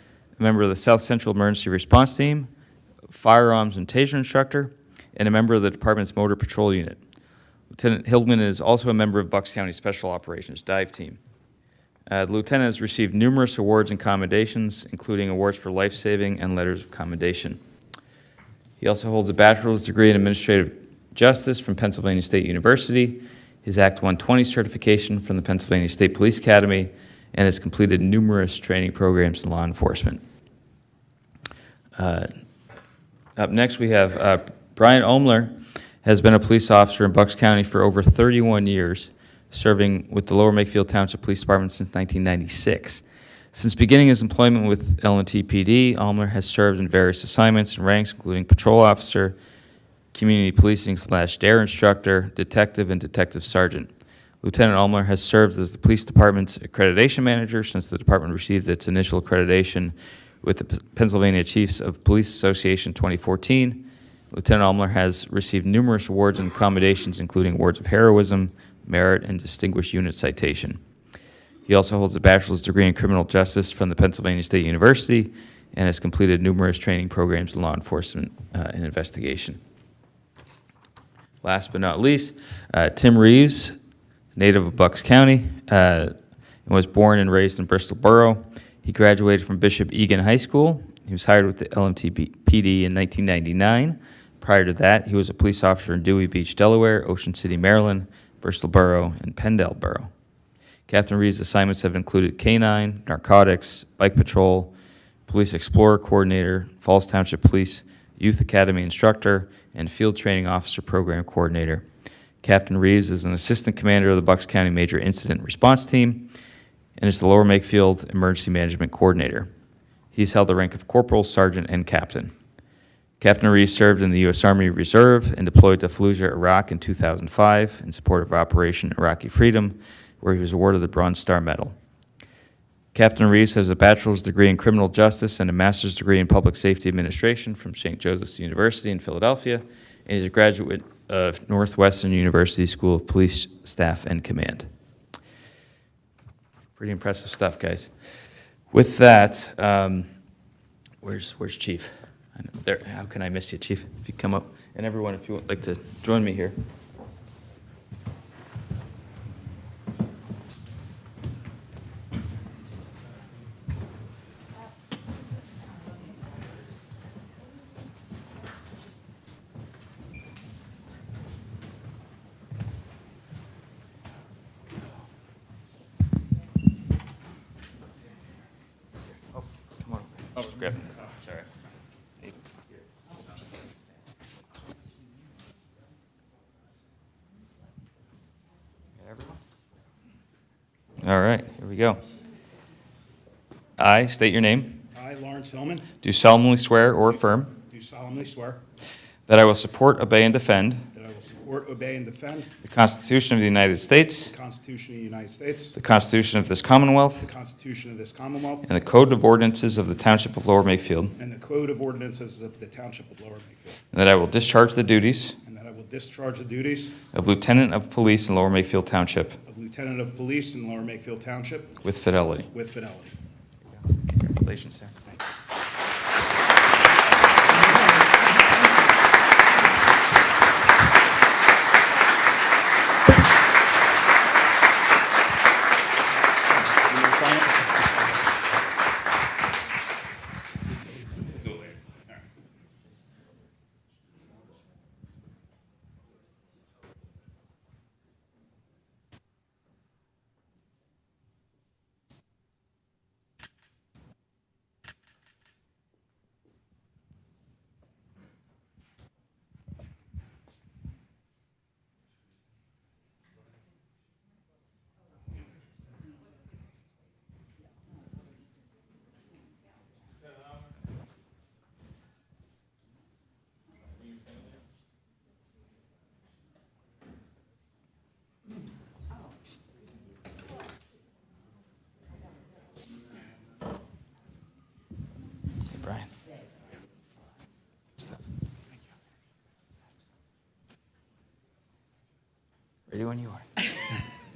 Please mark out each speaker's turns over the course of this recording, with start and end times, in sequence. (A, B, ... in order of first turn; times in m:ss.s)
0:00.4-0:02.5 A
0:03.1-0:07.0 A
0:07.7-0:11.2 A
0:12.1-0:17.6 A
0:18.8-0:30.2 A
0:32.0-0:32.3 A
0:33.4-0:49.4 A
0:50.1-0:53.9 A
0:54.4-1:10.8 A
1:11.7-1:19.6 A
1:21.4-1:23.8 A
1:24.3-1:26.1 A
1:26.7-1:40.1 A
1:40.9-1:44.7 A
1:45.3-1:51.8 A
1:52.4-1:56.3 A
1:57.0-1:59.5 A
2:00.1-2:02.3 A
2:03.2-2:11.8 A
2:12.9-2:24.7 A
2:26.8-2:27.9 A
2:28.7-2:30.1 A
2:31.0-2:36.6 A
2:59.1-3:01.5 A
3:09.0-3:09.4 A
3:11.0-3:12.0 A
3:13.8-3:14.8 A
3:14.9-3:15.9 B
3:16.0-3:17.5 A
3:17.5-3:18.6 B
3:19.3-3:20.8 A
3:20.9-3:22.5 B
3:22.6-3:24.3 A
3:24.3-3:25.8 B
3:25.8-3:27.2 A
3:27.2-3:28.7 B
3:28.7-3:31.1 A
3:31.2-3:33.8 B
3:33.9-3:35.4 A
3:35.4-3:37.0 B
3:37.1-3:39.4 A
3:39.5-3:41.8 B
3:41.8-3:42.5 A
3:42.5-3:43.2 B
3:44.2-3:45.0 A
3:56.8-3:57.9 B
4:45.7-4:46.1 A
4:52.9-4:53.6 A